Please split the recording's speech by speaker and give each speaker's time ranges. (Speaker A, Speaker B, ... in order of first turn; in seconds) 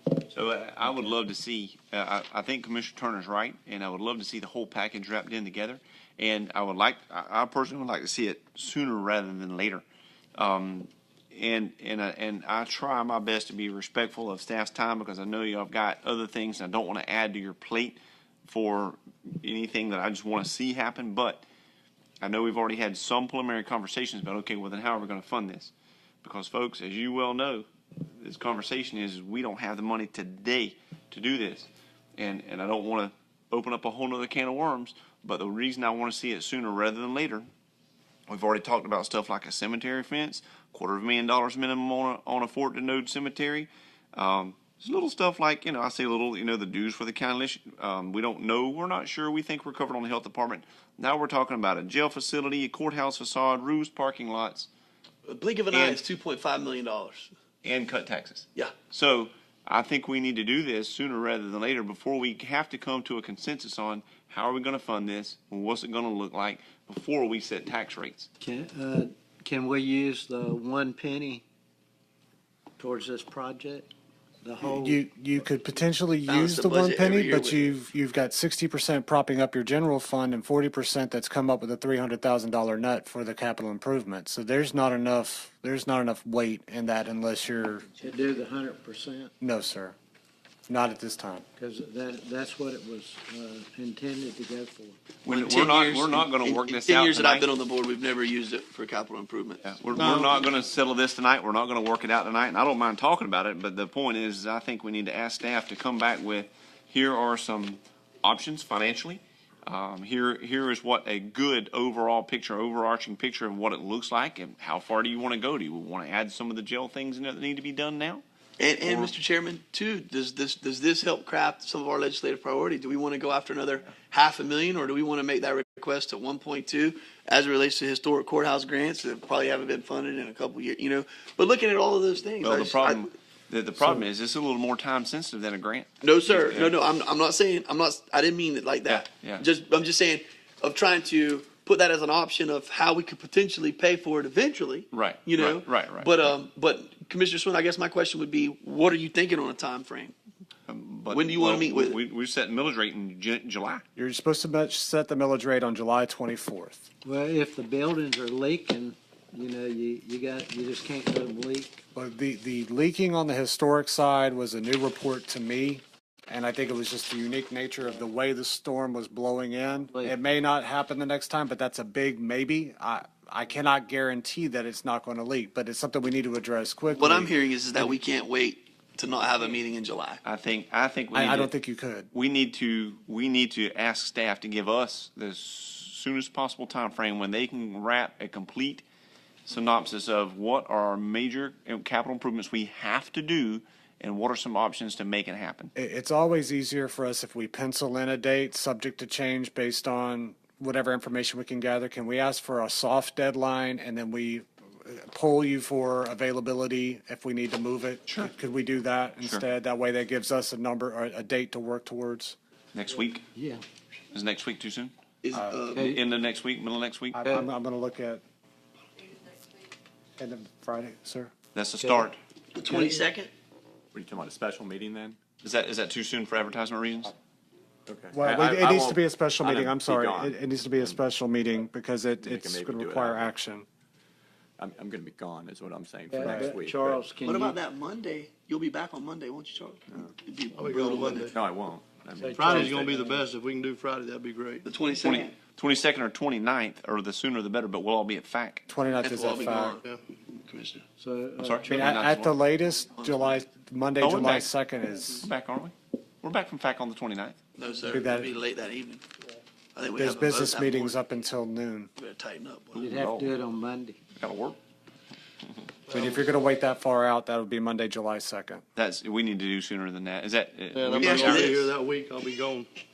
Speaker A: 0.3-9.8, 10.3-21.4, 22.2-37.5, 38.3-54.7, 55.7-56.0, 57.6-68.3, 95.2-97.5, 99.6-118.2, 118.8-119.1, 132.4-136.8, 138.8-139.4, 144.9-146.2, 150.7-153.8, 180.2-181.5, 182.1-188.8, 189.4-195.7, 208.1-208.3, 212.7-213.2, 214.1-214.9, 215.8-217.2, 221.5-222.2, 225.4-227.1, 245.0-248.7, 251.4-252.3, 254.0-254.5, 255.1-257.4, 264.2-264.6, 268.8-271.7
Speaker B: 0.8-1.1, 68.4-71.4, 72.8-75.0, 88.0-89.3, 91.6-95.0, 157.0-161.8, 213.3-213.6, 215.7-216.0, 221.8-222.1, 222.6-223.1, 236.1-237.6, 242.2-243.2, 251.0-251.8, 262.8-264.0
Speaker C: 55.2-57.3, 76.3-77.7, 95.3-100.4, 118.6-133.0, 136.0-150.1, 151.1-152.0, 177.0-180.2, 215.2-215.9, 222.6-223.3, 237.2-241.3, 244.6-245.3, 249.0-250.8, 257.6-259.0, 259.7-261.0, 262.0-262.8, 271.1-271.6
Speaker D: 74.6-87.9, 89.4-90.0, 90.7-91.4, 153.9-156.8, 161.9-177.9, 181.1-182.1, 195.8-212.3, 215.3-215.6, 217.1-218.2, 220.2-221.3, 228.1-233.7, 236.2-236.5, 248.7-249.8, 251.7-255.3, 257.9-258.3, 259.9-261.9, 265.9-268.6
Speaker E: 223.9-225.2, 227.9-231.0, 232.2-233.3, 234.6-237.1, 241.2-243.0, 262.8-263.3
Speaker F: 240.5-241.3, 242.3-244.6, 249.7-250.0, 265.9-266.3, 270.7-272.7